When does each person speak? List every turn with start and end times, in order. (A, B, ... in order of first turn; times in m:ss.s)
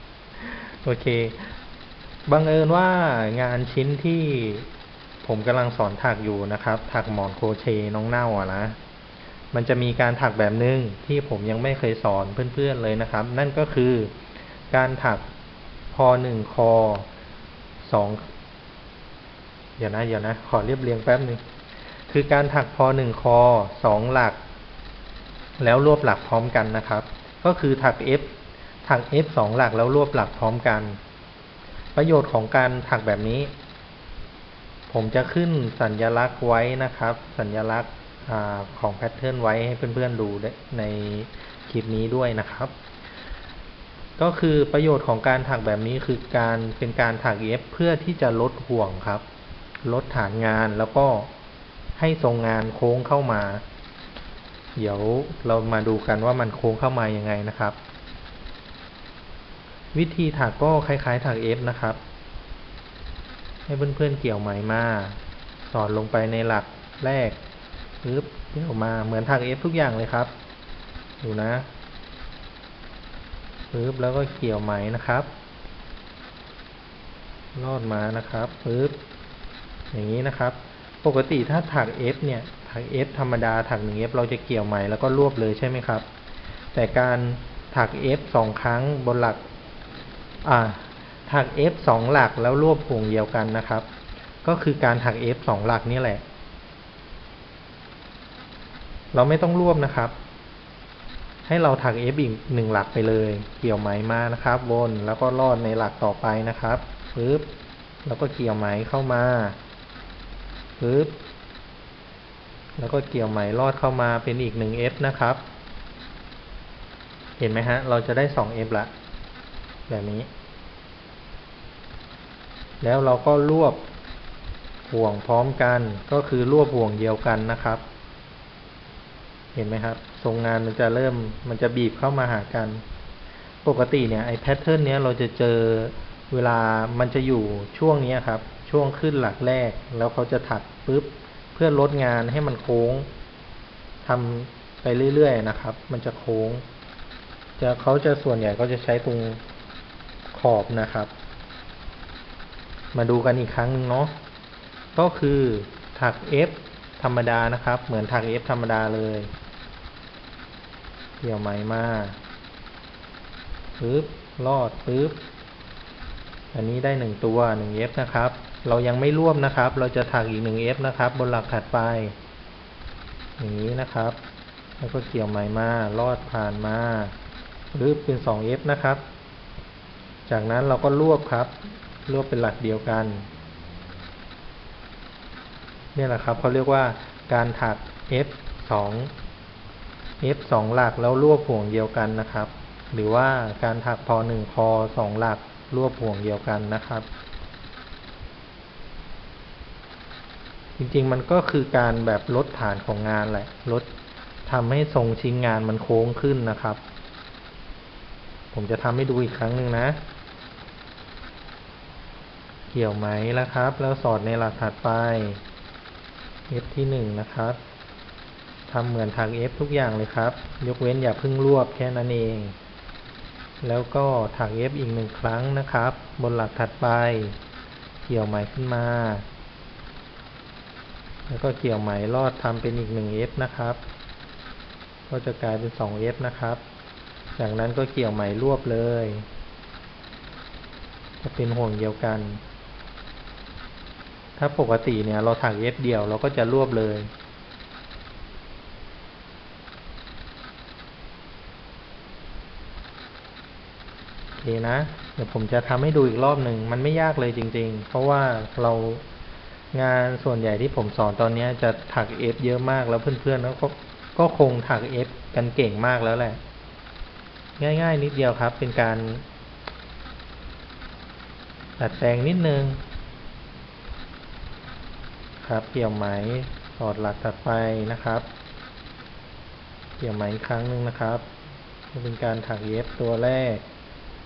0:00.4-0:01.5 A
0:02.3-0:04.7 A
0:05.2-0:08.8 A
0:09.5-0:14.1 A
0:14.7-0:15.3 A
0:15.9-0:17.1 A
0:17.8-0:18.3 A
0:19.8-0:21.4 A
0:22.1-0:24.4 A
0:25.6-0:28.3 A
0:28.8-0:31.0 A
0:32.0-0:33.5 A
0:34.9-0:42.8 A
0:44.2-0:49.2 A
0:49.8-0:51.3 A
0:52.0-0:53.6 A
0:54.8-0:57.8 A
0:59.9-1:02.0 A
1:03.7-1:07.4 A
1:08.0-1:10.3 A
1:11.2-1:11.7 A
1:13.7-1:15.3 A
1:17.6-1:19.0 A
1:19.9-1:26.1 A
1:26.7-1:29.4 A
1:30.4-1:33.9 A
1:34.4-1:36.2 A
1:39.1-1:40.2 A
1:41.4-1:47.4 A
1:48.0-1:49.6 A
1:50.8-1:51.2 A
1:52.8-1:55.4 A
1:57.4-1:58.9 A
1:59.9-2:00.3 A
2:02.8-2:03.8 A
2:04.9-2:07.8 A
2:09.5-2:12.8 A
2:13.6-2:23.1 A
2:24.0-2:26.6 A
2:27.6-2:29.4 A
2:30.3-2:31.1 A
2:32.9-2:34.1 A
2:35.0-2:39.3 A
2:41.2-2:42.2 A
2:43.8-2:45.2 A
2:46.5-2:52.2 A
2:53.4-2:54.2 A
2:54.8-2:57.2 A
2:57.7-2:59.0 A
3:00.3-3:03.3 A
3:06.0-3:09.1 A
3:10.2-3:17.1 A
3:20.8-3:23.9 A
3:24.5-3:26.8 A
3:28.5-3:30.0 A
3:32.7-3:35.4 A
3:36.5-3:37.6 A
3:38.7-3:42.6 A
3:43.6-3:47.4 A
3:48.1-3:49.3 A
3:51.3-3:53.8 A
3:55.1-3:56.6 A
3:57.4-3:59.3 A
4:01.2-4:02.4 A
4:04.4-4:07.1 A
4:14.4-4:19.0 A
4:19.7-4:26.4 A
4:27.6-4:29.2 A
4:31.8-4:32.8 A
4:35.4-4:38.3 A
4:40.0-4:41.2 A
4:41.9-4:43.6 A